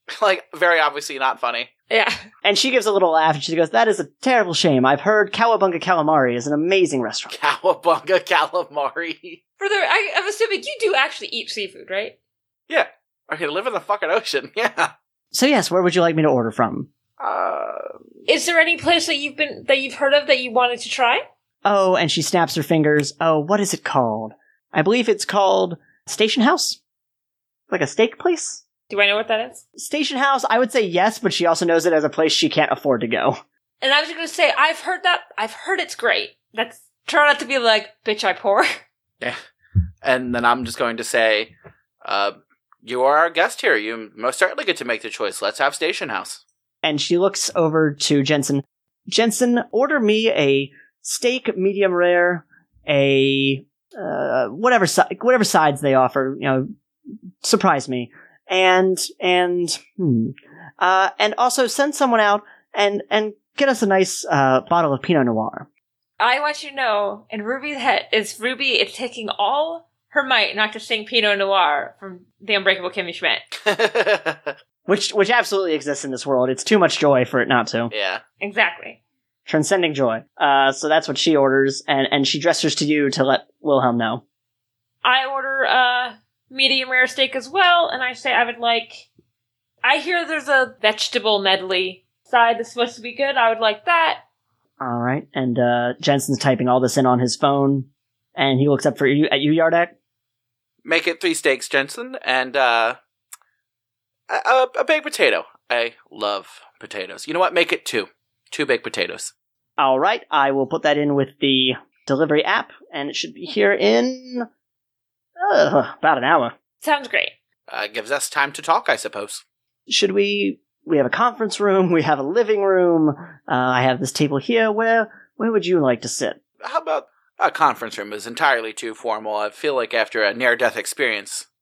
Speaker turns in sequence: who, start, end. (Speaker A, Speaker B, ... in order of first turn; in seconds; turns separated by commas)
Speaker A: 0.1-1.7, Speaker B: 1.9-2.2, Speaker C: 2.4-7.3, Speaker A: 7.3-9.4, Speaker B: 9.6-12.2, Speaker A: 12.7-14.9, Speaker C: 15.3-16.9, Speaker A: 17.2-17.9, Speaker B: 18.3-21.2, Speaker C: 21.6-26.8, Speaker C: 27.7-28.6, Speaker B: 28.9-29.6, Speaker C: 29.8-33.4, Speaker B: 33.8-38.8, Speaker A: 40.0-41.5, Speaker A: 42.0-46.4, Speaker C: 46.8-56.7, Speaker C: 57.4-65.7, Speaker B: 66.2-73.4, Speaker A: 73.7-74.5, Speaker C: 74.9-77.9, Speaker A: 77.9-78.2, Speaker B: 78.4-79.0, Speaker C: 79.5-84.2, Speaker B: 85.0-89.1, Speaker B: 89.8-94.2, Speaker C: 94.8-99.9, Speaker A: 100.8-103.0, Speaker A: 104.3-109.3, Speaker C: 109.8-114.5, Speaker C: 115.4-116.5, Speaker B: 116.8-117.3, Speaker A: 117.7-119.4, Speaker C: 119.9-126.4, Speaker A: 126.6-131.5